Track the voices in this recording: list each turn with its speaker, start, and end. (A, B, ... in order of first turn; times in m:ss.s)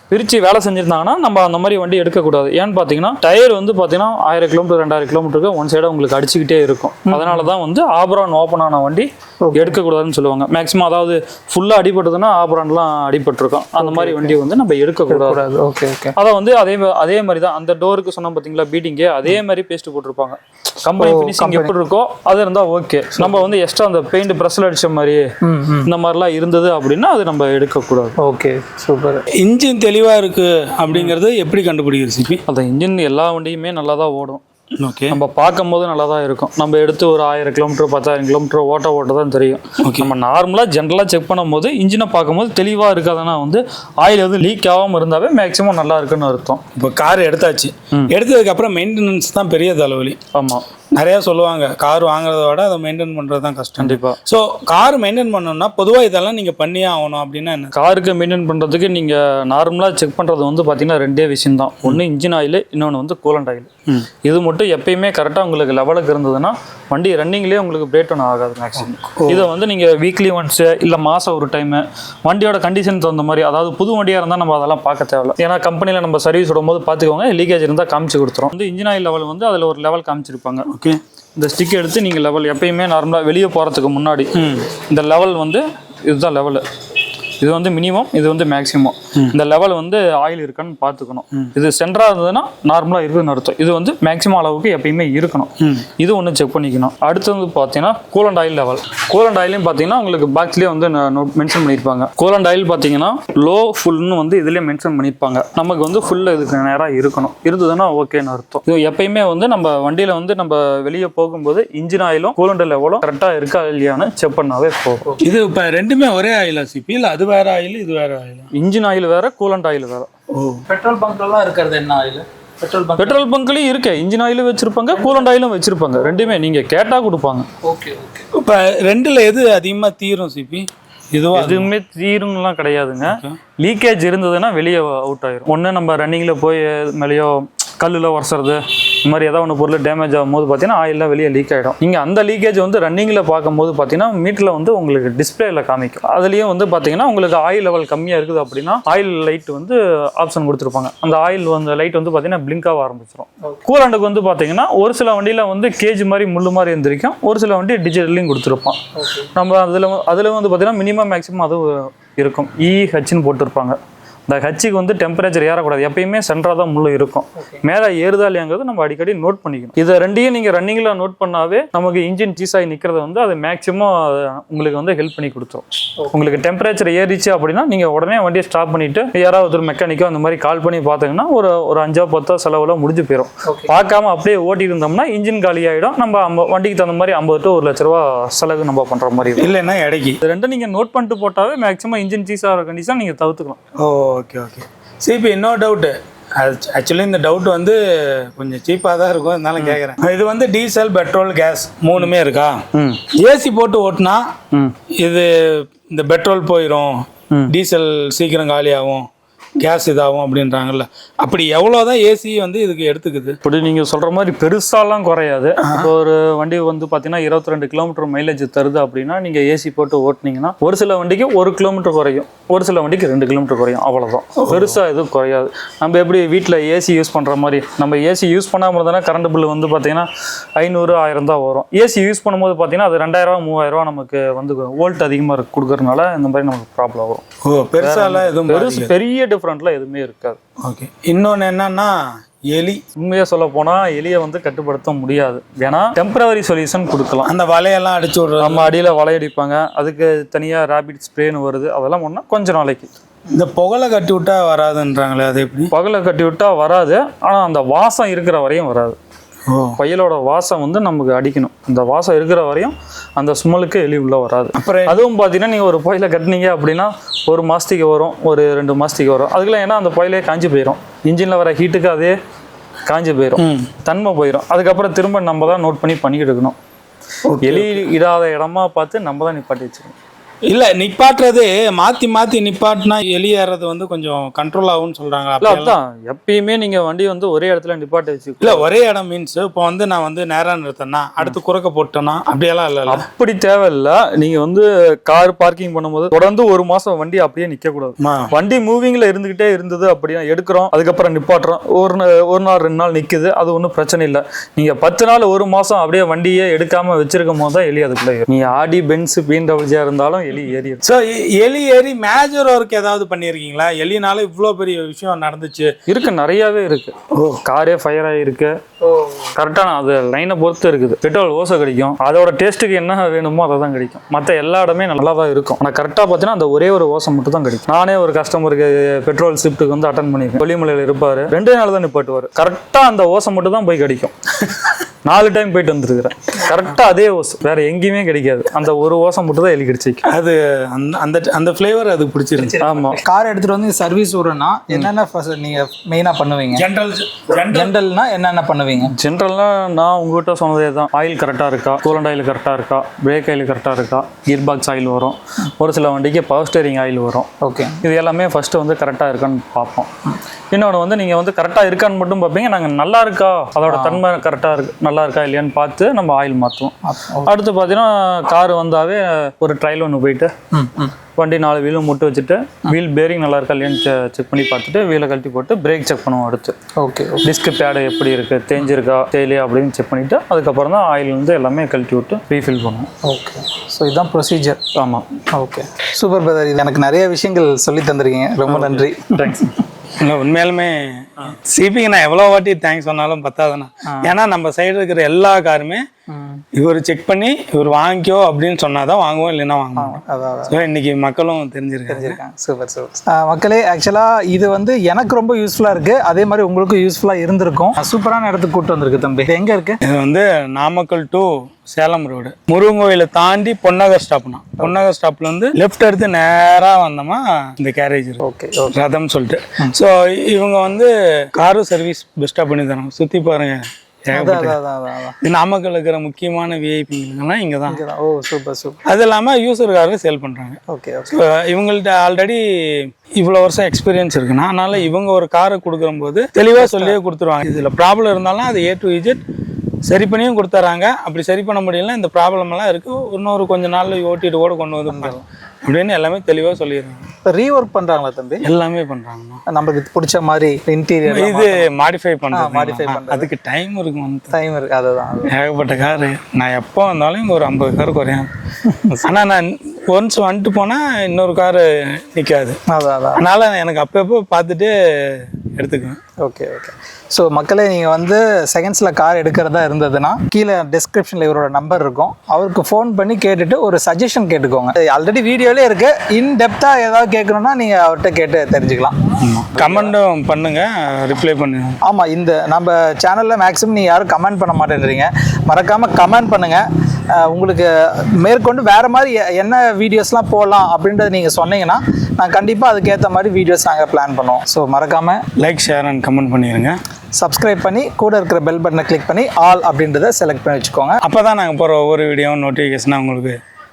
0:00.1-0:15.4 A
0:07.1-0:07.5 B
0:09.4-0:09.8 B
0:13.8-0:14.4 B
0:15.1-0:16.1 B
0:16.2-0:25.2 A
0:21.0-0:21.7 B
0:23.2-0:23.4 B
0:25.4-0:25.9 B
0:25.8-0:28.2 A
0:28.2-0:29.2 B
0:29.4-0:32.4 C
0:30.9-0:31.1 A
0:32.5-0:34.4 A
0:34.8-0:35.2 C
0:35.1-0:46.6 A
0:39.8-0:40.1 C
0:46.7-0:50.2 C
0:50.3-0:50.6 A
0:51.0-0:57.7 C
0:53.8-0:54.2 A
0:57.7-1:20.7 A
1:09.0-1:09.5 C
1:20.7-1:21.0 C
1:21.4-1:26.6 A
1:24.3-1:24.7 C
1:27.4-1:55.0 A
1:35.6-1:35.9 C
1:55.2-1:58.5 C
1:58.5-2:00.1 A
2:00.3-2:00.6 C
2:00.7-2:03.2 B
2:03.0-2:07.5 A
2:07.6-2:08.3 B
2:08.3-2:11.7 C
2:11.3-2:38.8 A
2:13.0-2:13.4 C
2:39.0-2:39.3 B
2:39.3-2:43.8 A
2:44.3-3:09.5 A
3:03.4-3:03.7 B
3:09.3-3:10.2 C
3:10.2-3:13.6 A
3:13.8-3:24.3 C
3:22.7-3:23.0 A
3:25.0-3:29.1 C
3:29.6-3:33.4 C
3:33.4-3:57.2 A
3:35.6-3:35.9 C
3:44.4-3:44.8 C
3:57.4-3:58.9 C
3:57.8-4:00.4 A
4:00.6-4:02.8 C
4:03.0-4:07.3 A
4:07.2-4:08.7 C
4:08.4-4:12.9 A
4:13.3-4:15.7 C
4:15.7-4:19.0 A
4:19.5-4:19.8 C
4:19.8-4:32.1 A
4:24.5-4:25.0 C
4:32.8-4:36.5 A
4:33.4-4:33.7 C
4:37.2-4:37.9 C
4:37.4-4:39.9 A
4:40.5-4:45.7 C
4:45.4-4:48.7 A
4:48.4-4:53.0 C
4:52.9-5:10.8 A
4:58.0-4:58.3 C
5:10.8-5:15.7 C
5:15.8-5:18.5 A
5:17.1-5:17.4 C
5:18.8-5:19.3 B
5:19.3-5:40.0 A
5:40.0-5:42.6 C
5:42.4-5:46.6 B
5:42.6-5:43.0 A
5:46.5-5:47.7 C
5:47.5-5:48.9 B
5:48.8-5:57.3 A
5:57.4-5:57.8 B
5:57.8-5:59.9 A
6:00.5-6:10.3 A
6:03.7-6:04.0 B
6:06.8-6:07.3 B
6:10.5-6:10.9 B
6:11.2-6:16.6 A
6:16.8-6:17.3 B
6:17.2-6:22.9 A
6:23.0-6:24.6 B
6:24.7-6:25.0 A
6:25.3-6:29.6 B
6:28.4-6:29.5 A
6:30.0-6:35.8 C
6:33.9-6:34.1 B
6:36.1-6:36.4 B
6:36.5-6:42.2 C
6:39.8-6:40.5 B
6:41.9-6:49.8 B
6:49.8-7:04.6 C
6:58.2-6:58.8 B
7:04.1-7:05.2 B
7:05.2-7:07.8 C
7:07.7-7:08.8 B
7:08.9-7:19.2 C
7:10.7-7:11.2 B
7:16.5-7:17.0 B
7:19.8-7:27.0 C
7:24.9-7:25.2 B
7:27.3-7:28.4 B
7:28.4-7:29.4 C
7:29.5-7:31.7 B
7:31.1-7:34.4 C
7:32.3-7:33.3 B
7:34.3-7:35.3 B
7:35.3-7:38.3 C
7:38.6-7:39.2 B
7:39.0-7:42.6 C
7:42.7-7:43.2 B
7:43.2-7:46.0 C
7:46.2-7:59.0 B
7:59.2-8:01.8 C
7:59.5-7:59.9 B
8:01.8-8:06.6 B
8:07.1-8:15.2 B
8:15.4-8:16.8 C
8:17.2-8:21.0 B
8:21.0-8:23.4 C